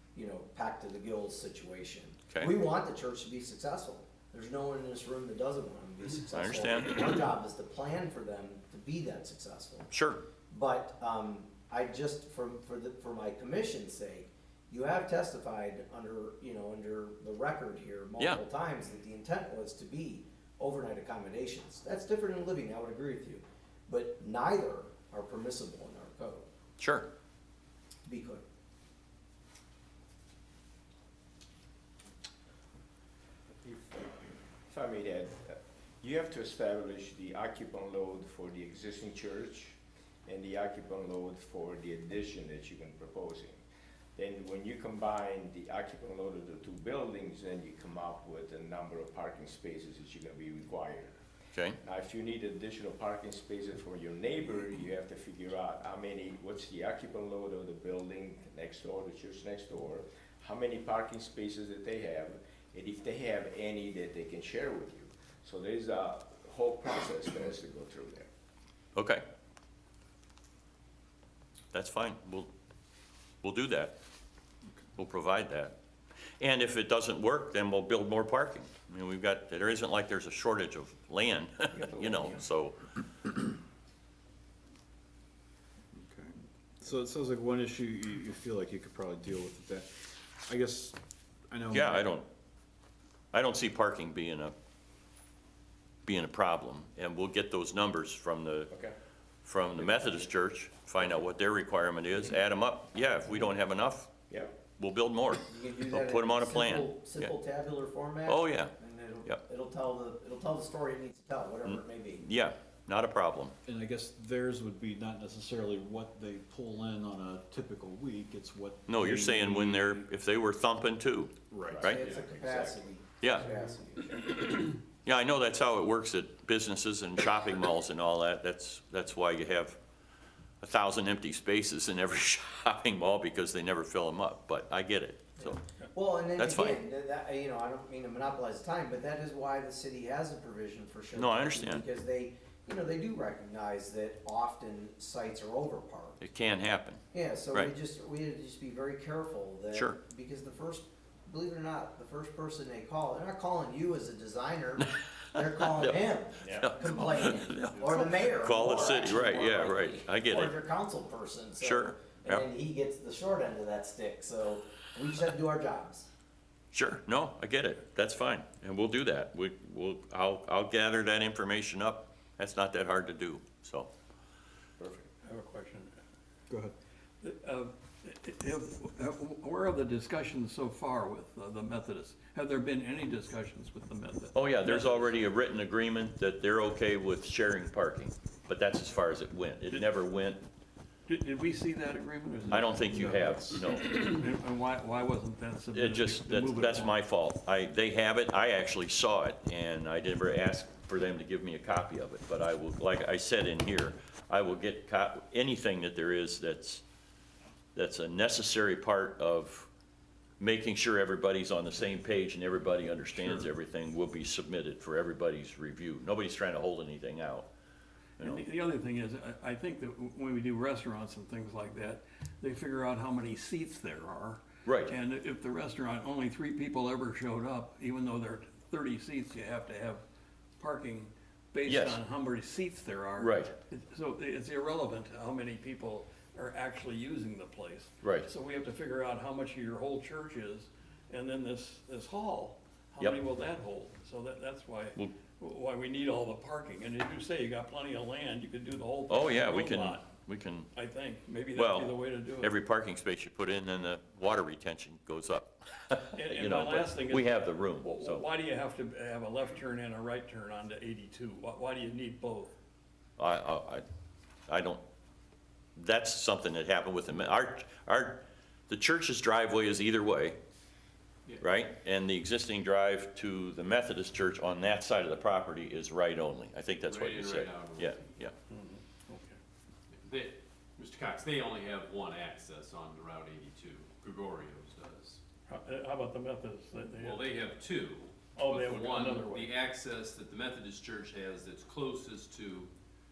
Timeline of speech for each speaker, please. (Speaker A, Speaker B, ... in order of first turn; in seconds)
Speaker A: 0.1-9.9, 10.5-26.4, 28.1-28.4, 81.7-82.4, 105.5-112.2, 121.8-124.5, 135.4-146.2, 147.1-166.1
Speaker B: 6.3-7.2, 9.9-10.2, 26.8-27.1, 68.9-69.2, 71.7-72.5, 73.4-74.0, 75.0-75.8, 76.4-82.8, 91.7-92.2, 93.3-94.5, 96.0-98.7, 99.4-104.1, 104.7-107.3, 108.2-108.7, 111.6-113.5, 118.9-122.1, 123.2-123.5, 125.0-129.8, 130.6-135.6, 136.4-136.8, 141.1-141.8, 146.2-147.7, 149.7-150.0, 154.8-156.0, 156.5-160.6, 161.6-162.4, 166.7-173.9, 184.3-190.4, 192.5-194.1, 195.7-206.8, 207.7-209.7, 210.4-217.5, 218.2-218.4, 224.6-224.9, 231.6-232.0, 233.2-233.5, 238.0-238.3, 249.1-250.7, 251.5-258.2, 263.2-263.8, 264.5-264.8, 265.8-270.4, 271.4-278.3
Speaker C: 33.6-43.6, 44.1-51.2, 51.8-68.3, 98.7-99.0, 99.8-100.3, 104.3-104.6, 121.7-122.8, 174.8-175.1
Speaker D: 85.9-91.0, 91.5-92.1, 113.7-120.0, 121.5-121.9, 176.5-176.7
Speaker E: 156.4-156.7, 175.2-175.9, 177.2-185.2, 191.1-196.9, 213.2-213.4, 218.2-230.0, 230.6-250.1, 250.7-252.5, 256.1-262.5, 278.5-279.4, 285.5-287.3, 288.3-289.6
Speaker F: 276.9-278.1, 279.9-285.2, 287.0-292.7